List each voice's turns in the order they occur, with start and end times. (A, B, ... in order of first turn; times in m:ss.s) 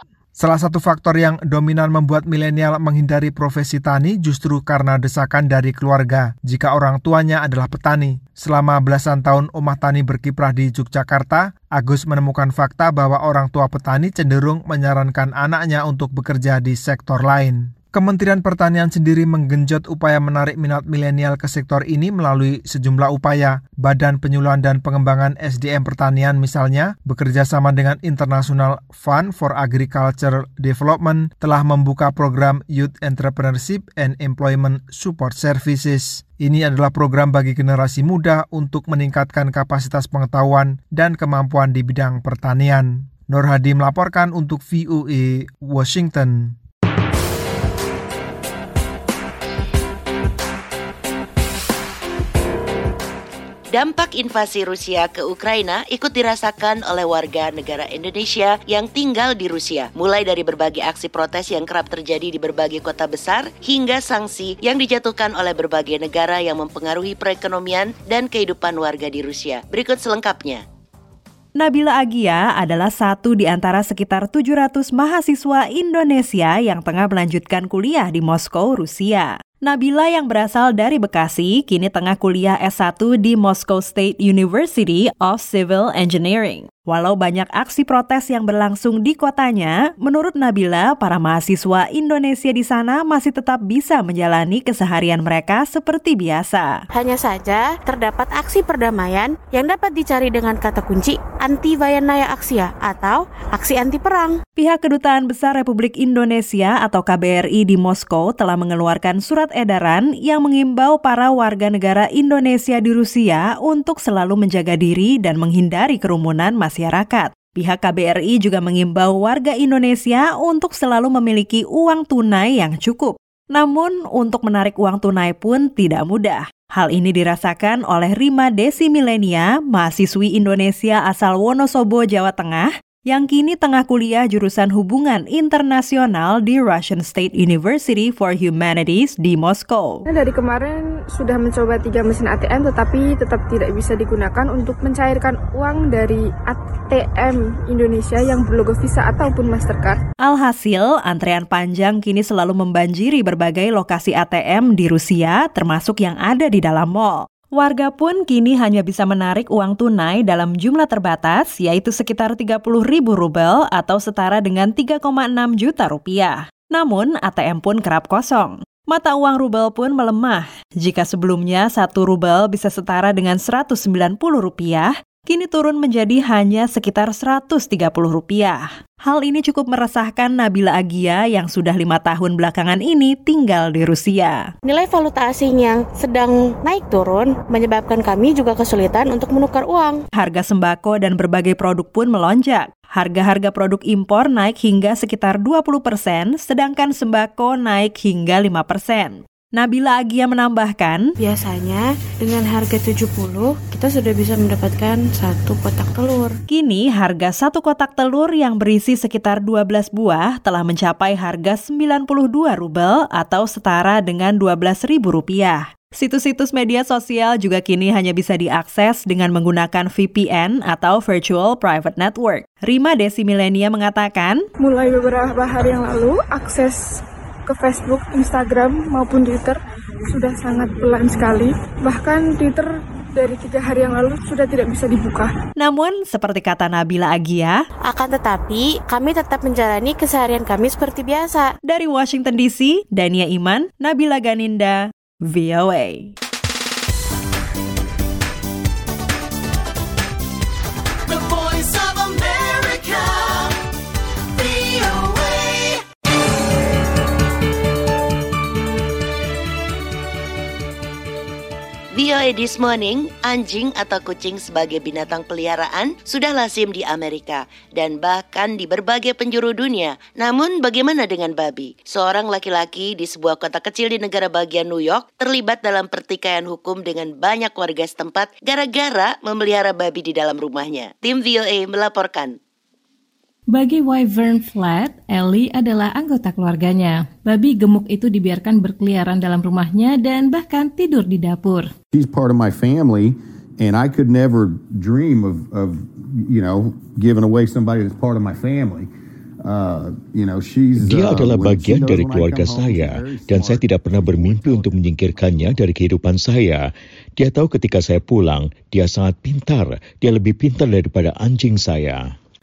0:00.4-0:46.6 A
0:53.7-1:10.6 B
1:11.6-1:36.8 C
1:36.9-1:44.4 D
1:44.6-2:20.0 C
2:20.1-2:30.0 E
2:30.2-3:04.4 C
3:04.6-3:10.0 D
3:10.1-3:21.1 C
3:21.2-3:26.4 D
3:26.5-3:44.4 C
3:44.6-3:49.6 E
3:50.1-3:55.3 E
3:55.6-3:57.6 C
3:57.8-4:01.5 D
4:01.7-4:06.1 C
4:21.9-4:42.4 B
4:43.5-4:51.7 F
4:51.9-4:58.9 G
4:59.4-5:05.6 G
5:00.8-5:12.1 H